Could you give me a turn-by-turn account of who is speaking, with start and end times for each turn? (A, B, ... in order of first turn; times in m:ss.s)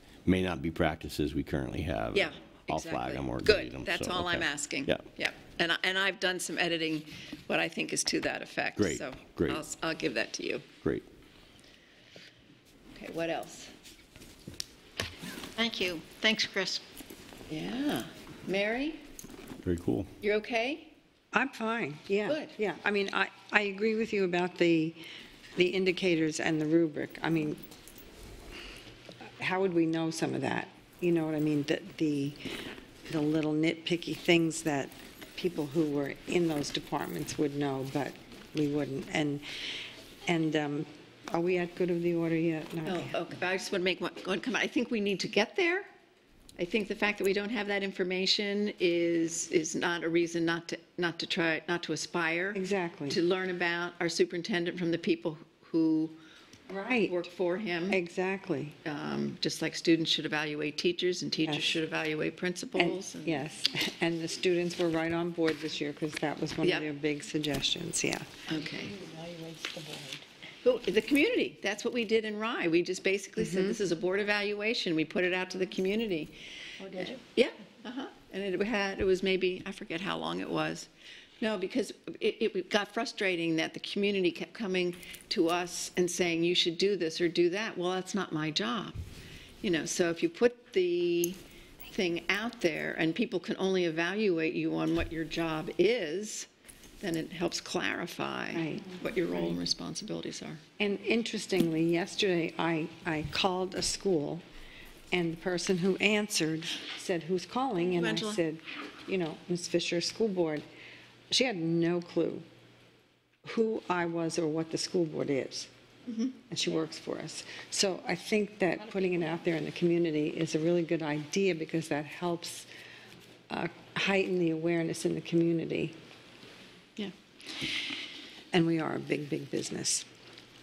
0:00.2-0:05.0 A
0:02.1-0:10.7 B
0:08.8-0:09.6 A
0:10.8-0:11.0 A
0:12.9-0:13.7 B
0:15.6-0:16.8 C
0:17.5-0:19.0 B
0:19.6-0:20.1 A
0:20.2-0:20.9 B
0:21.3-0:25.0 D
0:25.6-0:27.6 D
0:29.4-0:32.4 D
0:33.1-0:39.4 D
0:40.2-0:43.2 D
0:42.8-0:45.9 B
0:46.6-0:56.2 B
0:52.5-0:53.2 D
0:56.7-0:57.2 D
0:57.0-0:58.0 B
0:57.9-0:58.8 D
0:58.8-1:03.4 B
1:02.8-1:08.2 D
1:06.6-1:06.9 B
1:08.5-1:08.9 B
1:08.5-1:10.2 C
1:10.6-1:16.3 B
1:13.4-1:13.8 D
1:16.8-1:17.2 C
1:16.9-1:20.9 B
1:21.4-1:29.0 B
1:29.6-1:36.5 B
1:37.0-1:40.6 B
1:38.5-1:39.6 D
1:40.8-1:44.4 D
1:45.1-1:50.6 D
1:47.9-1:48.4 B
1:51.3-1:52.4 D
1:53.4-1:55.7 D
1:56.5-2:02.7 D
2:03.5-2:05.9 D
2:08.5-2:10.0 D